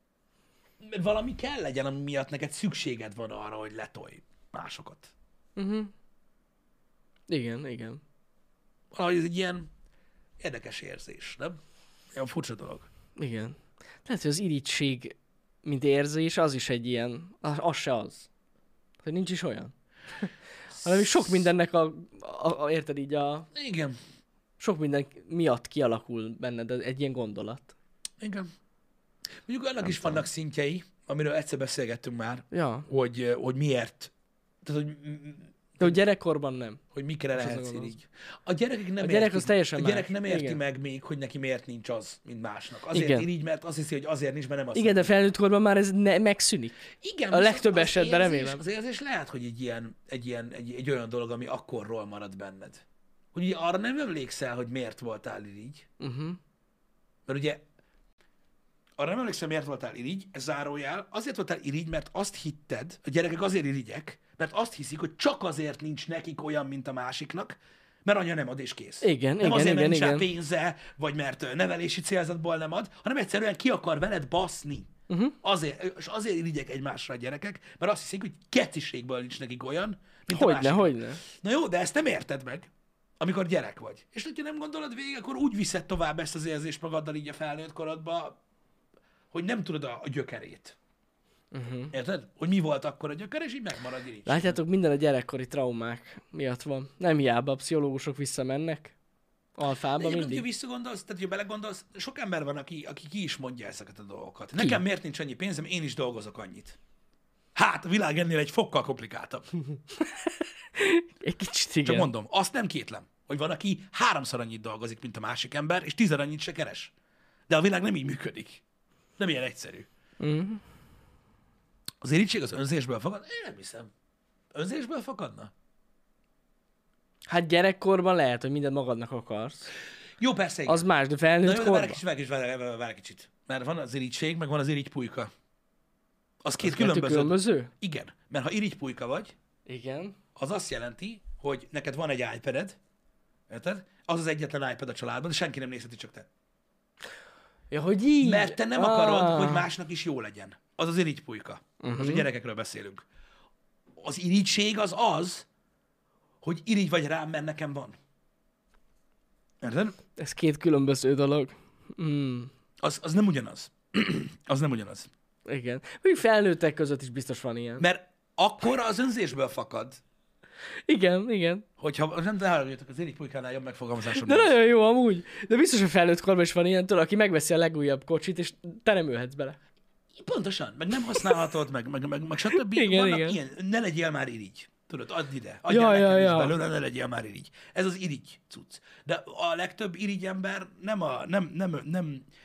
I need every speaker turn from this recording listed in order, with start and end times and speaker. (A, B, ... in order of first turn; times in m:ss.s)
0:00.8-0:05.1 A
0:05.6-0:05.9 B
0:07.3-0:08.0 B
0:08.9-0:09.7 A
0:10.4-0:11.6 A
0:12.1-0:12.9 A
0:13.2-0:18.3 B
0:19.0-0:23.5 B
0:20.8-0:21.4 A
0:23.5-0:24.0 A
0:24.6-0:27.7 B
0:28.2-0:28.5 A
0:29.4-0:34.1 A
0:29.9-0:30.2 B
0:32.5-0:32.9 B
0:34.6-0:36.0 A
0:35.8-0:36.8 B
0:36.9-0:45.1 A
0:37.3-0:37.9 B
0:39.0-0:40.6 B
0:42.9-0:43.3 B
0:44.7-0:46.8 B
0:47.0-0:52.8 A
0:47.3-0:48.6 B
0:53.3-0:55.8 A
0:56.0-0:56.4 B
0:57.3-0:57.6 A
0:59.0-1:14.9 A
1:09.0-1:10.3 B
1:15.1-1:15.3 B
1:15.4-1:22.7 A
1:20.3-1:21.2 B
1:23.2-1:28.4 A
1:29.3-1:30.8 A
1:31.5-1:31.9 B
1:31.9-1:34.6 A
1:34.2-1:38.9 B
1:39.6-1:40.4 B
1:40.0-1:46.8 A
1:47.5-1:49.5 A
1:50.7-1:52.1 B
1:51.8-1:56.9 A
1:57.5-1:58.6 A
1:59.2-1:59.9 A
2:00.2-2:00.6 B
2:02.0-2:03.9 A
2:04.5-2:05.5 A
2:07.3-2:09.7 B
2:10.2-2:10.8 A
2:10.7-2:12.0 B
2:11.4-2:15.3 A
2:16.4-2:19.3 A
2:16.6-2:17.7 B
2:19.6-2:20.2 B
2:20.4-2:22.8 A
2:23.5-2:26.3 A
2:27.7-2:29.7 B
2:28.2-2:33.0 A
2:31.8-2:32.3 B
2:34.0-2:35.4 A
2:36.4-2:38.0 A
2:39.6-2:40.0 A
2:40.2-2:42.5 B
2:42.8-2:45.1 A
2:45.4-2:47.8 B
2:47.8-2:50.0 A
2:50.9-2:51.6 B
2:51.8-2:54.5 A
2:54.1-2:59.6 B
3:00.1-3:12.2 A
3:02.6-3:03.4 B
3:05.7-3:06.5 B